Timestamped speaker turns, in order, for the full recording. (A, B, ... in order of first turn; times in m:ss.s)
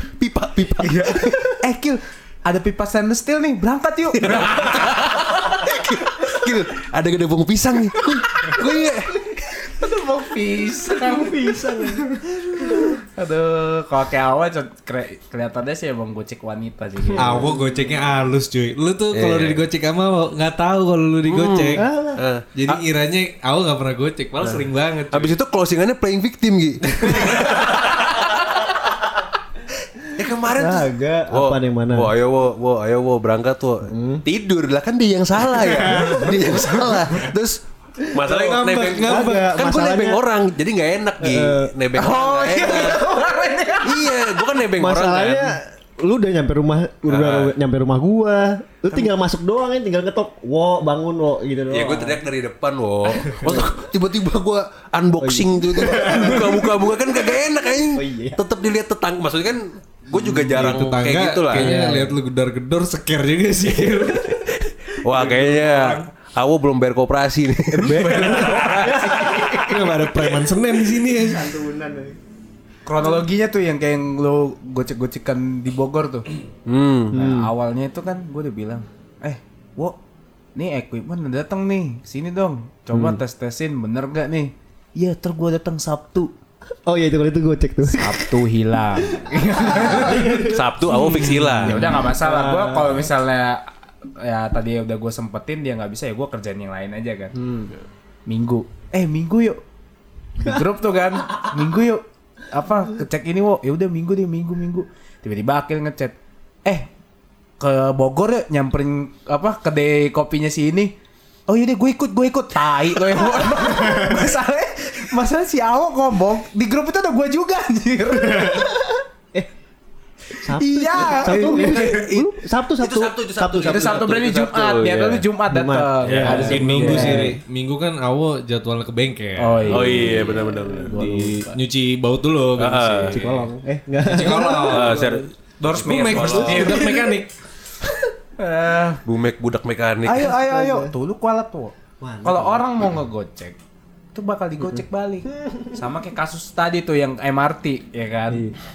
0:00.2-0:01.4 A
0:00.8-0:05.6 B
0:04.2-0:09.4 A
0:09.5-0:17.5 B
0:11.0-0:13.0 C
0:17.1-0:17.7 C
0:17.2-0:21.8 D
0:19.1-0:19.6 A
0:21.3-0:22.8 A
0:21.8-0:22.2 C
0:22.5-0:25.3 D
0:24.4-0:28.3 A
0:27.0-0:27.8 D
0:30.2-0:43.1 A
0:30.3-0:32.1 C
0:33.9-0:34.2 C
0:35.6-0:36.3 D
0:35.9-0:36.2 C
0:36.3-0:36.9 B
0:38.0-0:40.2 C
0:38.3-0:39.5 D
0:41.2-0:41.7 C
0:41.9-0:44.3 B
0:43.8-0:45.6 A
0:44.8-0:52.2 C
0:47.0-0:47.5 A
0:51.7-1:01.7 A
0:53.4-0:53.7 C
0:55.2-0:57.3 C
0:57.9-0:58.4 C
1:00.1-1:00.7 C
1:00.1-1:06.1 D
1:01.5-1:02.2 C
1:05.0-1:08.6 A
1:07.7-1:09.8 B
1:07.8-1:10.0 C
1:09.3-1:11.5 D
1:11.0-1:12.2 C
1:12.8-1:16.3 B
1:16.6-1:17.2 A
1:17.1-1:17.5 C
1:17.1-1:20.0 B
1:20.5-1:26.3 B
1:22.9-1:23.2 C
1:26.8-1:28.4 C
1:27.9-1:37.3 B
1:29.0-1:33.1 C
1:30.2-1:32.0 A
1:37.3-1:37.7 C
1:38.3-1:39.6 B
1:40.4-1:46.9 B
1:47.6-1:50.9 B
1:51.5-1:58.8 B
2:00.4-2:04.1 C
2:00.5-2:02.1 B
2:00.9-2:05.2 A
2:03.6-2:07.4 B
2:05.5-2:07.4 C
2:06.0-2:06.6 A
2:06.2-2:10.4 D
2:09.4-2:11.6 B
2:09.7-2:11.0 A
2:10.2-2:11.3 C
2:10.9-2:13.5 D
2:12.6-2:13.2 A
2:13.1-2:15.3 C
2:14.0-2:15.1 D
2:14.4-2:16.8 A
2:15.6-2:17.1 B
2:15.7-2:17.3 D
2:18.4-2:19.0 B
2:19.0-2:20.3 A
2:20.0-2:23.6 B
2:20.2-2:20.9 C
2:22.0-2:22.8 C
2:24.1-2:28.5 B
2:24.6-2:25.8 C
2:28.3-2:28.6 C